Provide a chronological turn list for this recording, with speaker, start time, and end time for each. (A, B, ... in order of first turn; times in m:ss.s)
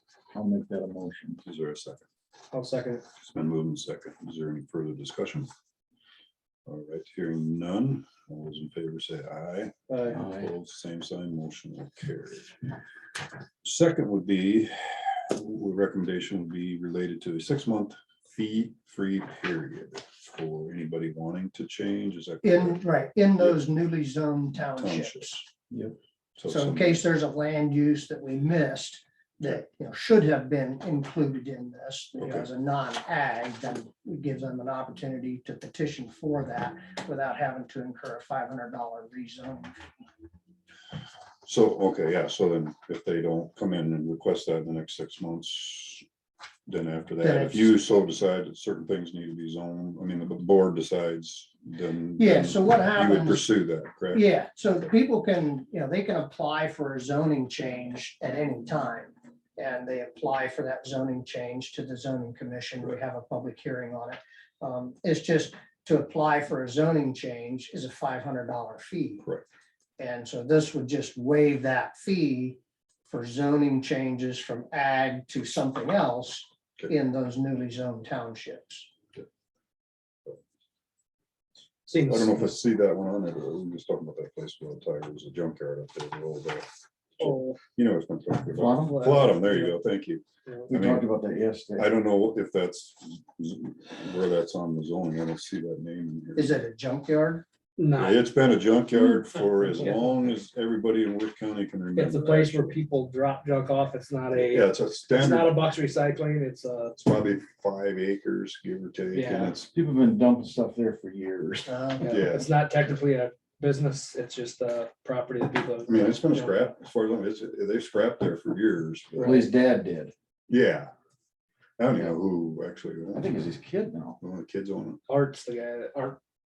0:00.3-0:01.4 A
0:01.4-0:02.1 B
0:02.5-0:03.0 C
0:03.2-0:05.5 B
0:06.7-0:12.5 B
0:09.9-0:10.2 C
0:10.2-0:10.5 A
0:13.6-0:22.8 B
0:22.4-0:25.4 D
0:23.4-0:23.6 B
0:24.7-0:25.4 B
0:26.4-0:27.0 B
0:26.5-0:39.7 D
0:32.2-0:32.5 B
0:41.4-0:46.0 B
0:46.7-0:54.2 B
0:47.2-0:47.8 D
0:52.2-0:53.4 D
0:54.1-1:09.2 D
1:10.0-1:18.9 D
1:21.9-1:22.6 C
1:22.0-1:26.7 B
1:27.2-1:27.6 C
1:27.2-1:31.1 B
1:28.6-1:29.0 A
1:28.8-1:29.8 C
1:30.7-1:31.9 A
1:31.8-1:36.6 B
1:36.4-1:37.4 D
1:37.8-1:38.2 C
1:38.0-1:42.8 B
1:39.7-1:40.3 C
1:42.0-1:47.0 C
1:44.3-1:45.6 B
1:47.0-1:49.7 B
1:49.1-1:49.6 C
1:49.7-1:51.7 A
1:51.6-1:52.1 D
1:52.0-1:56.7 C
1:52.1-1:52.5 B
1:55.9-1:59.5 B
1:59.2-2:00.1 A
2:00.5-2:00.9 B
2:01.8-2:03.3 B
2:03.1-2:04.2 A
2:04.2-2:05.0 B
2:05.1-2:06.2 C